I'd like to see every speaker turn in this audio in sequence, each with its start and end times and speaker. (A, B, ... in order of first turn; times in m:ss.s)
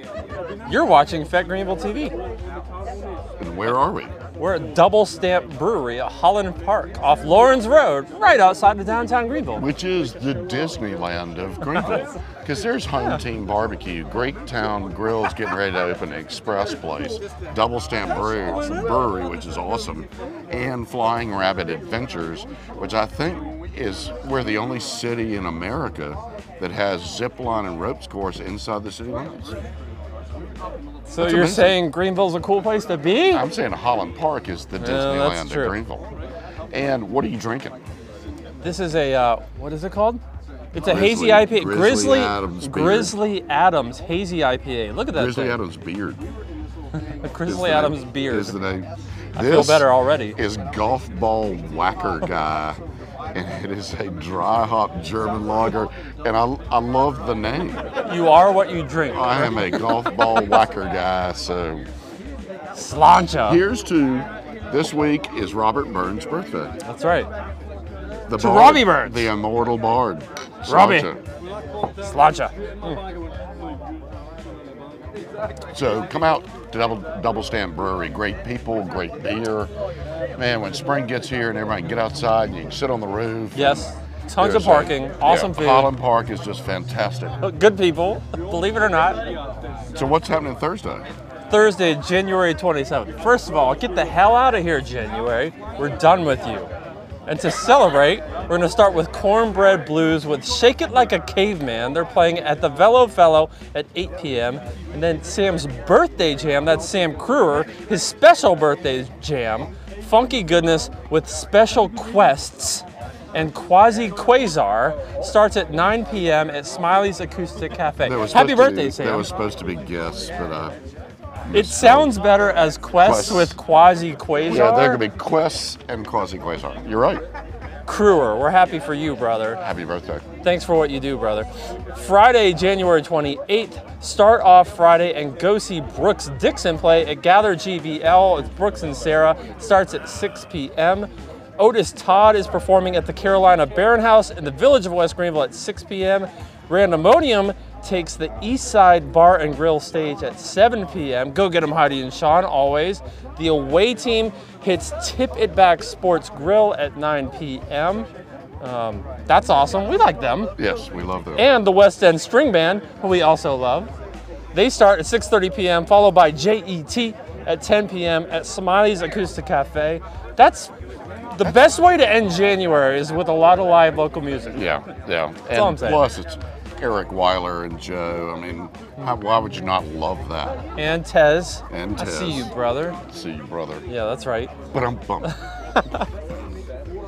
0:00.7-0:02.2 A
0:03.4-0:04.2 B
0:04.4-0:09.7 A
0:09.6-0:29.6 B
0:31.1-0:33.4 A
0:31.2-0:31.8 B
0:33.3-0:36.1 B
0:34.8-0:35.8 A
0:36.7-0:37.8 B
0:38.6-0:40.2 A
0:40.7-0:45.6 A
0:40.8-0:43.2 B
0:45.1-0:46.2 B
0:47.0-0:48.6 A
0:47.5-0:52.8 B
0:49.4-0:50.4 A
0:53.3-0:57.9 B
0:58.0-1:00.6 A
0:59.1-1:01.9 B
1:02.7-1:03.6 A
1:03.4-1:06.7 B
1:06.8-1:07.3 A
1:08.3-1:11.2 B
1:08.3-1:09.3 A
1:10.7-1:11.1 A
1:12.0-1:13.0 A
1:15.7-1:19.7 B
1:20.4-1:27.4 B
1:23.6-1:25.9 A
1:27.4-1:29.2 A
1:29.9-1:31.1 B
1:31.5-1:36.7 A
1:37.3-1:59.3 A
1:58.0-2:00.8 B
2:01.5-2:02.2 B
2:01.5-2:05.0 A
2:03.0-2:03.6 B
2:04.5-2:07.2 B
2:07.9-2:09.6 A
2:09.6-2:10.2 B
2:10.4-2:38.1 A
2:38.6-2:40.5 A
2:40.6-2:41.5 B
2:41.4-2:43.9 A
2:44.5-2:50.7 A
2:51.3-2:54.6 A
2:51.4-2:51.7 B
2:54.5-3:00.6 B
2:55.5-2:56.1 A
3:00.8-3:03.0 A
3:01.7-3:03.9 B
3:03.9-3:04.6 A
3:04.7-3:05.4 B
3:05.8-3:06.0 A